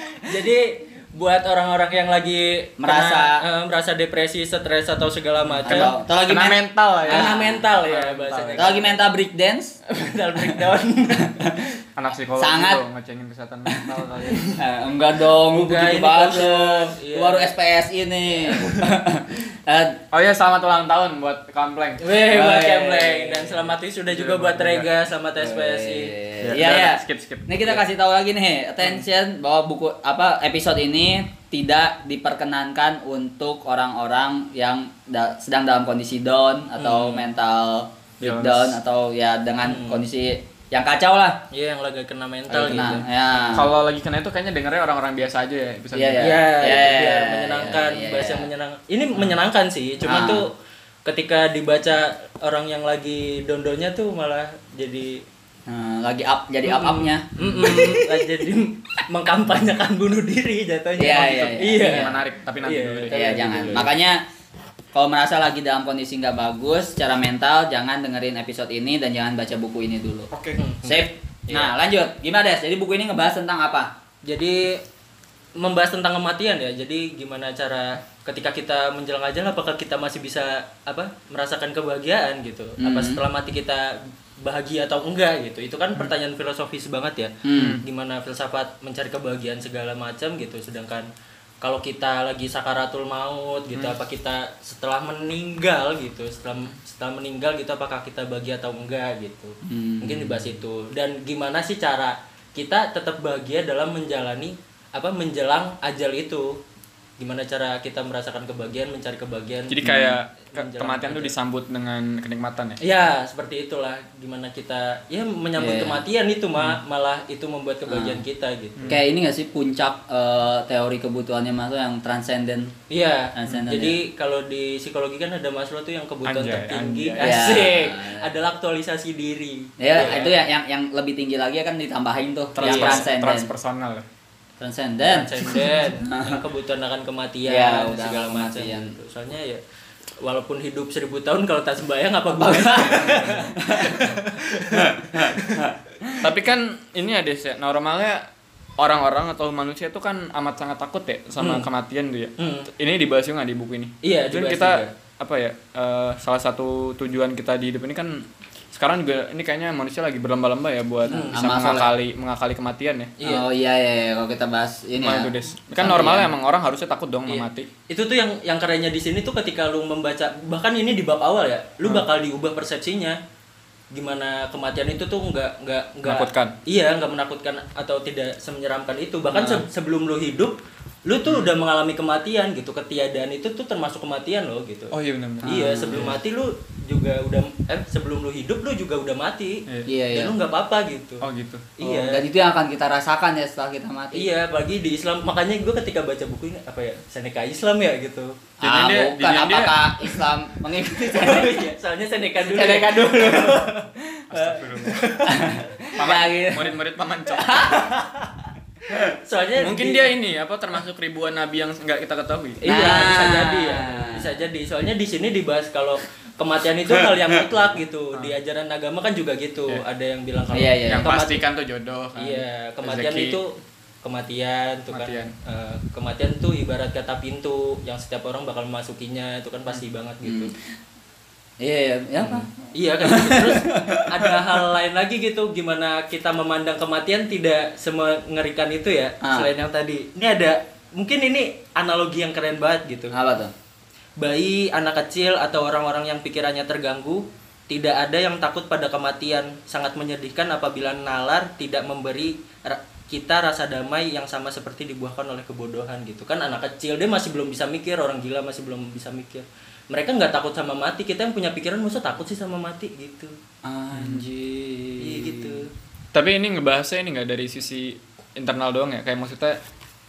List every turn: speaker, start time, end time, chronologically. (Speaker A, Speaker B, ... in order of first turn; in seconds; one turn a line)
Speaker A: 0.1-6.0
Speaker B: 2.8-3.4
Speaker C: 5.5-8.8
Speaker B: 5.7-7.6
Speaker A: 7.0-9.0
Speaker B: 8.6-9.8
Speaker A: 9.9-11.7
Speaker C: 12.0-14.5
Speaker B: 12.4-12.8
Speaker B: 14.5-20.0
Speaker A: 15.3-17.5
Speaker C: 20.1-22.0
Speaker A: 22.0-26.1
Speaker B: 22.2-23.6
Speaker C: 24.1-24.9
Speaker B: 25.4-41.4
Speaker C: 26.4-27.8
Speaker A: 36.8-37.3
Speaker C: 38.2-38.8
Speaker A: 39.6-40.0
Speaker A: 41.5-43.1
Speaker B: 42.5-43.6
Speaker C: 43.5-46.4
Speaker B: 45.9-48.5
Speaker A: 46.2-50.5
Speaker B: 50.0-50.5
Speaker A: 51.0-55.2
Speaker B: 55.7-58.3
Speaker A: 56.6-63.9
Speaker B: 61.0-62.1
Speaker C: 61.7-63.9
Speaker B: 63.1-64.2
Speaker B: 64.9-70.3
Speaker C: 70.3-70.6
Speaker A: 70.6-71.7
Speaker B: 70.8-73.9
Speaker A: 74.2-74.8
Speaker A: 75.6-91.1
Speaker B: 82.8-83.2
Speaker B: 87.5-87.8
Speaker C: 87.6-87.8
Speaker A: 91.6-106.6
Speaker B: 99.6-100.4
Speaker A: 107.2-111.3
Speaker C: 109.7-112.8
Speaker A: 112.8-118.9
Speaker B: 115.6-116.0
Speaker B: 117.9-118.2
Speaker C: 118.8-119.0
Speaker B: 118.9-122.7
Speaker A: 122.9-130.4
Speaker B: 123.3-124.0
Speaker C: 126.2-127.6
Speaker B: 127.2-128.3
Speaker B: 129.8-133.5
Speaker C: 132.6-134.1
Speaker A: 132.6-133.0
Speaker B: 134.6-136.4
Speaker A: 135.1-139.6
Speaker B: 137.5-138.9
Speaker A: 140.2-145.7
Speaker B: 142.4-144.0
Speaker C: 143.0-143.5
Speaker C: 146.2-148.3
Speaker C: 148.8-163.1
Speaker A: 151.4-151.7
Speaker A: 152.4-152.7
Speaker A: 154.0-154.9
Speaker A: 161.1-161.4
Speaker B: 161.2-161.9
Speaker A: 163.2-163.4
Speaker B: 163.2-166.3
Speaker C: 165.0-167.7
Speaker A: 167.3-173.2
Speaker A: 173.9-180.5
Speaker C: 176.0-176.6
Speaker A: 181.1-191.3
Speaker C: 181.3-181.5
Speaker C: 184.9-186.2
Speaker B: 185.4-186.1
Speaker B: 189.9-190.3
Speaker C: 191.2-191.7
Speaker A: 191.8-192.2
Speaker B: 191.8-194.3
Speaker A: 194.1-198.4
Speaker C: 198.6-199.8
Speaker B: 198.6-201.7
Speaker A: 201.1-203.9
Speaker B: 202.4-203.6
Speaker C: 204.3-205.2
Speaker B: 204.3-204.6
Speaker A: 204.9-205.5
Speaker B: 205.2-206.7
Speaker C: 206.0-207.8
Speaker B: 207.4-207.9
Speaker A: 208.9-210.1
Speaker C: 209.6-212.6
Speaker A: 212.6-221.4
Speaker B: 212.7-214.3
Speaker B: 220.5-221.1
Speaker C: 220.9-223.4
Speaker A: 222.2-230.5
Speaker C: 224.9-225.3
Speaker B: 230.2-230.5
Speaker B: 231.6-232.5
Speaker A: 232.2-243.1
Speaker B: 233.1-234.4
Speaker B: 239.2-239.5
Speaker B: 243.1-243.5
Speaker A: 244.2-263.3
Speaker B: 263.6-265.6
Speaker C: 263.9-264.2
Speaker A: 265.0-265.7
Speaker C: 266.1-269.6